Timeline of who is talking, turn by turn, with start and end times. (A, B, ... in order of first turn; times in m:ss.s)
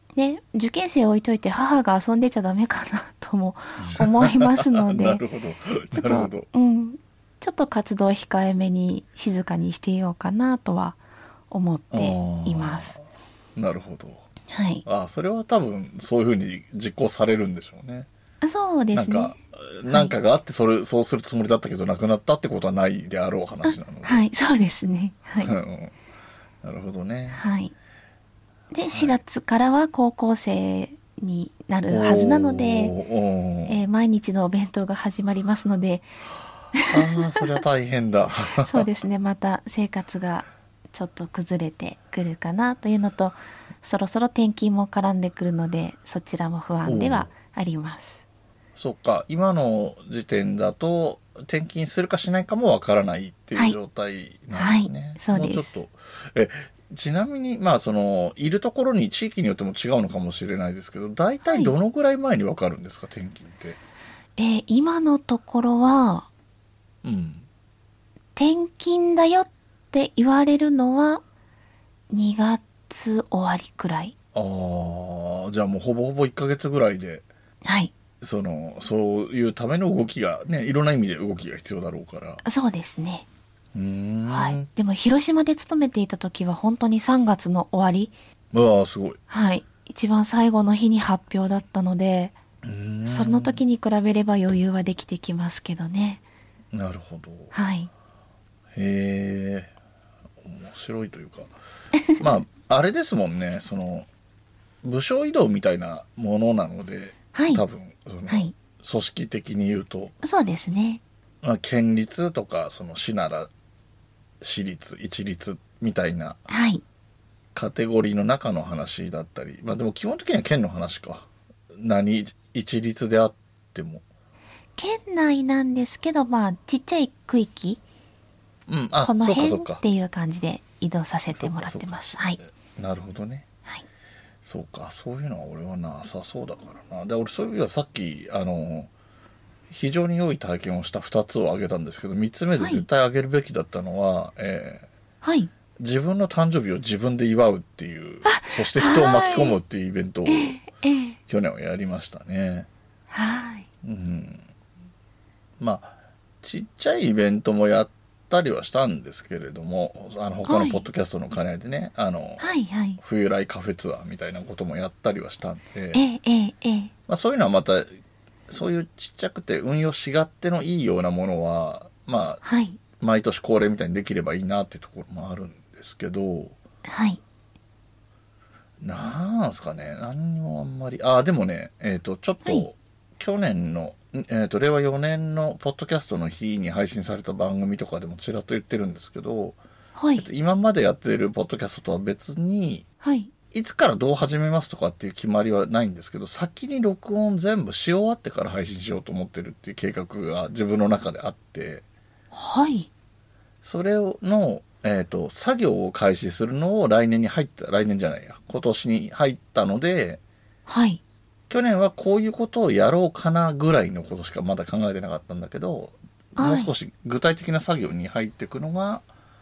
0:00.2-0:05.2 A
0:03.8-0:06.5 B
0:05.9-0:11.0 A
0:11.5-0:13.0 A
0:11.9-0:13.0 B
0:13.6-0:14.3 B
0:14.5-0:14.8 A
0:14.9-0:18.1 B
0:18.4-0:20.1 A
0:18.9-0:24.3 B
0:23.6-0:25.5 A
0:25.4-0:26.0 B
0:26.6-0:27.4 B
0:27.3-0:27.7 A
0:28.7-0:33.0 A
0:28.9-0:29.2 B
0:31.9-0:33.8 B
0:33.7-0:36.1 A
0:36.9-0:38.9 B
0:38.6-0:48.2 A
0:46.8-0:47.3 B
0:48.8-1:03.8 B
0:54.5-0:55.8 A
1:01.4-1:01.7 A
1:04.4-1:06.3 A
1:07.0-1:07.5 B
1:08.4-1:11.2 A
1:12.1-1:14.1 A
1:14.4-1:17.3 B
1:17.6-1:17.9 A
1:18.2-1:22.4 B
1:22.4-1:23.3 A
1:23.7-1:24.7 B
1:24.3-1:28.2 A
1:28.5-1:29.2 B
1:29.3-1:32.4 A
1:32.6-1:33.6 B
1:33.1-1:36.2 A
1:36.7-1:37.5 B
1:37.5-1:37.9 A
1:38.8-1:39.7 B
1:40.4-1:41.5 B
1:42.2-1:44.1 B
1:44.8-1:50.2 B
1:47.3-1:47.6 A
1:48.3-1:48.5 A
1:50.2-1:51.0 A
1:51.4-1:53.5 B
1:54.4-1:56.4 B
1:56.5-1:56.8 A
1:57.6-2:04.0 B
2:04.8-2:07.8 A
2:08.7-2:09.8 B
2:09.0-2:12.4 A
2:11.4-2:13.5 B
2:14.4-2:18.9 B
2:19.7-2:24.9 B
2:22.6-2:22.9 A
2:25.2-2:25.5 A
2:25.8-2:30.6 B
2:28.2-2:29.6 A
2:30.3-2:31.2 A
2:31.3-2:32.7 B
2:33.1-2:33.7 A
2:33.8-2:34.4 B
2:35.6-2:46.0 B
2:40.4-2:40.8 A
2:42.4-2:43.0 A
2:45.9-2:46.9 A
2:47.1-2:47.9 B
2:48.5-2:52.4 B
2:52.4-2:52.8 A
2:53.0-2:56.6 B
2:56.9-2:57.2 A
2:58.8-3:09.6 B
3:10.0-3:10.3 A
3:10.2-3:12.9 B
3:13.0-3:13.3 A
3:13.5-3:21.8 B
3:22.3-3:22.9 A
3:23.6-3:30.2 B
3:30.7-3:31.0 A
3:31.5-3:39.0 B
3:36.4-3:36.7 A